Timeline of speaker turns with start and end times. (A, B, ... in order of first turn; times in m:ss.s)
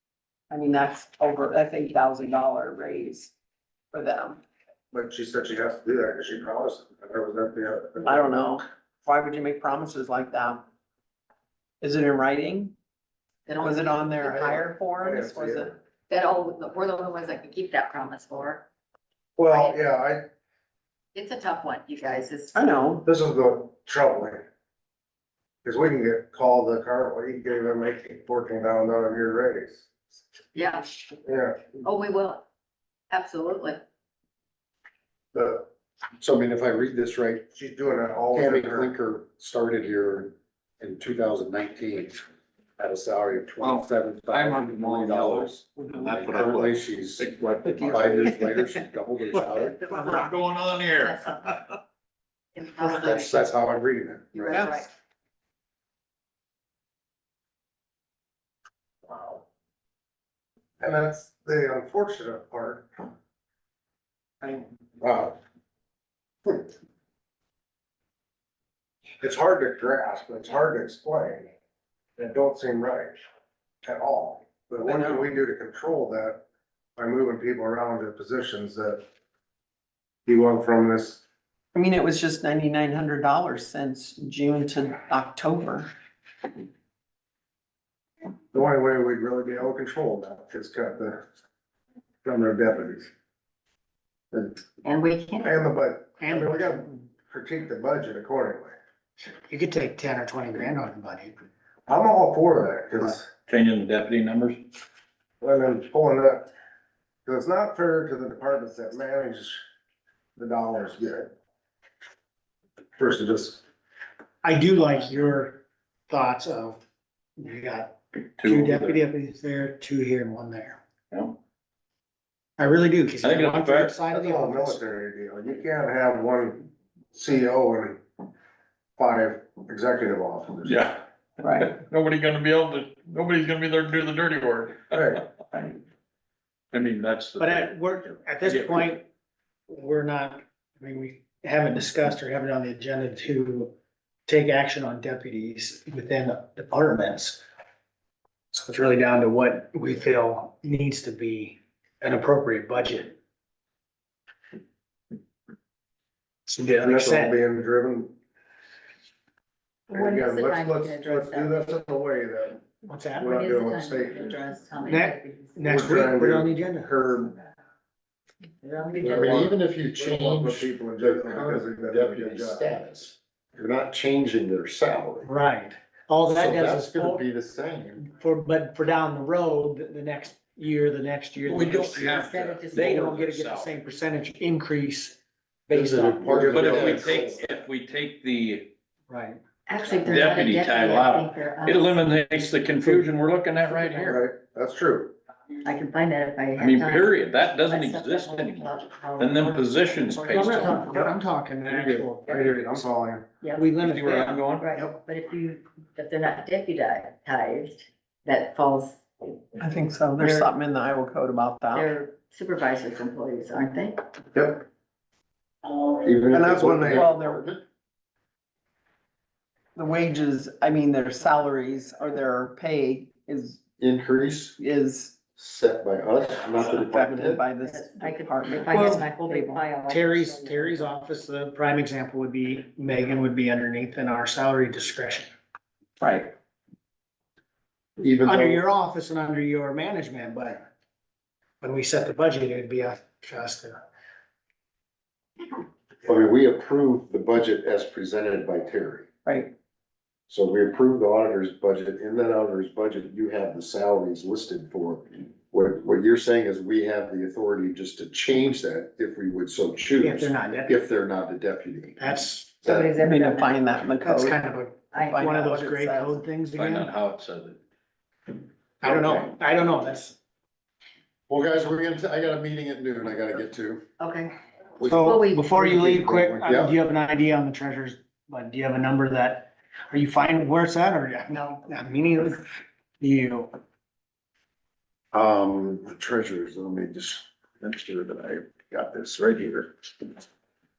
0:00.5-0:03.3 A
0:03.9-0:04.4 A
0:04.9-0:08.4 B
0:08.0-0:10.6 A
0:11.8-0:12.7 A
0:13.4-0:14.4 C
0:13.6-0:15.7 A
0:14.2-0:15.8 B
0:16.1-0:18.6 C
0:19.4-0:20.2 B
0:19.5-0:19.8 C
0:21.1-0:22.8 C
0:22.5-0:23.0 A
0:23.0-0:24.4 B
0:25.6-0:29.9 B
0:30.5-0:31.0 C
0:31.2-0:31.7 B
0:31.7-0:32.4 C
0:33.1-0:33.8 C
0:35.3-0:35.6 B
0:36.2-0:37.5 D
0:37.5-0:38.9 B
0:38.3-0:42.2 D
0:42.8-0:50.0 D
0:43.6-0:48.3 E
0:49.9-0:51.6 E
0:51.0-0:51.6 C
0:52.5-0:53.4 C
0:52.9-0:54.7 D
0:54.3-0:54.9 C
0:54.5-0:54.8 A
0:59.1-0:59.4 B
1:00.8-1:03.1 B
1:04.5-1:05.3 B
1:06.4-1:06.7 B
1:09.2-1:11.5 B
1:12.2-1:13.1 B
1:13.8-1:16.4 B
1:14.9-1:15.2 A
1:17.0-1:19.0 B
1:20.2-1:21.2 B
1:21.7-1:25.9 A
1:28.5-1:31.2 B
1:32.2-1:33.1 B
1:34.3-1:34.6 B
1:34.8-1:35.6 C
1:35.4-1:38.7 B
1:36.2-1:36.8 F
1:39.5-1:41.3 F
1:41.9-1:43.3 B
1:43.5-1:44.6 E
1:45.4-1:46.5 B
1:47.2-1:49.6 B
1:50.4-1:51.3 B
1:53.0-1:53.6 B
1:54.4-1:56.8 F
1:57.4-2:00.8 F
1:58.4-1:59.0 E
2:02.6-2:04.9 F
2:03.2-2:04.0 E
2:04.1-2:08.0 B
2:09.0-2:10.8 B
2:10.6-2:15.8 E
2:11.4-2:11.7 A
2:14.9-2:15.2 B
2:16.7-2:18.9 E
2:17.4-2:19.0 F
2:19.7-2:23.7 F
2:24.3-2:27.4 F
2:28.5-2:33.2 F
2:36.5-2:37.4 F
2:36.8-2:38.1 B
2:39.9-2:41.7 C
2:39.9-2:42.6 B
2:42.8-2:43.4 F
2:43.2-2:44.4 B
2:43.2-2:45.7 C
2:44.9-2:47.0 F
2:45.6-2:47.4 B
2:48.6-2:49.5 C
2:48.9-2:52.7 B
2:49.0-2:55.3 D
2:55.2-2:57.2 F
2:56.3-2:58.1 D
2:58.0-3:02.2 F
3:01.4-3:03.8 E
3:01.9-3:03.0 C
3:02.7-3:06.5 F
3:05.7-3:07.4 D
3:06.2-3:07.5 B
3:06.5-3:08.7 E
3:09.1-3:09.4 F
3:09.7-3:12.0 C
3:10.0-3:14.2 E
3:13.9-3:15.1 B
3:15.6-3:19.5 C
3:16.6-3:21.0 E
3:20.1-3:22.8 F
3:20.3-3:20.6 C
3:21.7-3:23.2 B
3:23.4-3:23.7 C
3:23.6-3:24.4 F
3:23.8-3:24.7 E
3:24.6-3:29.4 C
3:29.6-3:31.9 A
3:30.2-3:30.5 C
3:31.7-3:34.0 C
3:34.3-3:34.6 B
3:36.0-3:37.6 D
3:36.3-3:37.1 B
3:36.9-3:37.5 A
3:39.8-3:43.6 A
3:43.8-3:44.6 D
3:44.6-3:45.2 A
3:45.4-3:47.4 D
3:46.6-3:49.0 A
3:47.6-3:50.8 C
3:48.7-3:55.3 F
3:56.0-3:56.3 A
3:58.0-3:58.6 D
3:58.2-4:00.6 F
4:01.6-4:03.8 F
4:06.0-4:09.1 D
4:09.2-4:09.5 A
4:10.3-4:22.0 D
4:20.0-4:20.8 F
4:22.0-4:22.6 F
4:22.6-4:22.9 D
4:22.6-4:23.6 C
4:23.0-4:24.4 A
4:24.0-4:26.9 F
4:24.9-4:25.5 C
4:25.0-4:26.2 A
4:26.5-4:27.6 E
4:28.8-4:30.1 F
4:28.8-4:29.3 D
4:31.3-4:33.8 D
4:34.0-4:35.5 C
4:34.8-4:36.8 D
4:34.8-4:42.4 F
4:43.0-4:43.5 F
4:45.1-4:50.0 D